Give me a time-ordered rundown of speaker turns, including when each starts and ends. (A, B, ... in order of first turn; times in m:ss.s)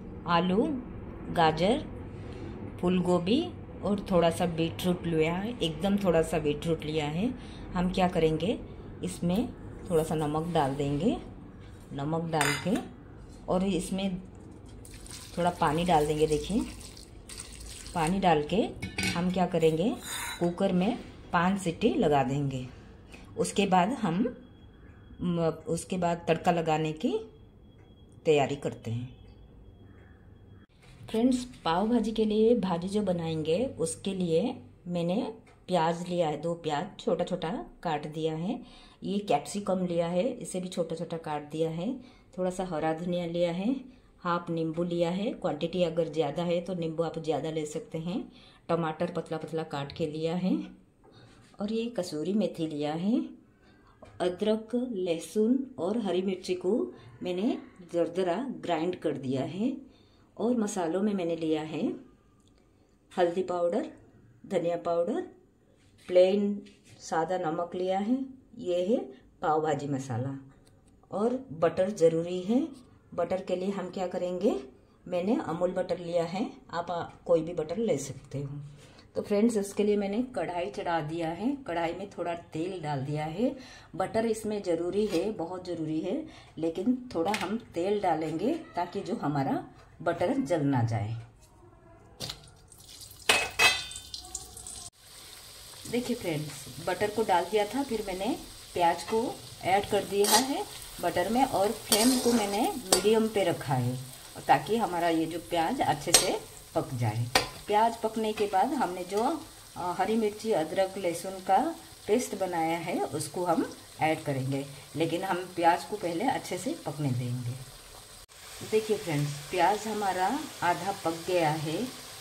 0:00.3-0:01.9 A
0:02.8-0:11.2 A
0:11.9-0:12.8 A
0:13.5-0:14.2 A
0:15.3-0:16.6 A
0:17.9-0:22.7 A
0:23.4-0:24.3 A
0:25.2-0:27.2 A
0:28.2-0:29.1 A
0:31.1-0:50.6 A
0:51.6-0:53.3 A
0:54.2-0:59.8 A
1:00.4-1:01.9 A
1:03.1-1:03.9 A
1:04.4-1:05.3 A
1:06.0-1:10.4 A
1:11.1-1:31.2 A
1:35.8-1:57.6 A
1:58.6-2:01.9 A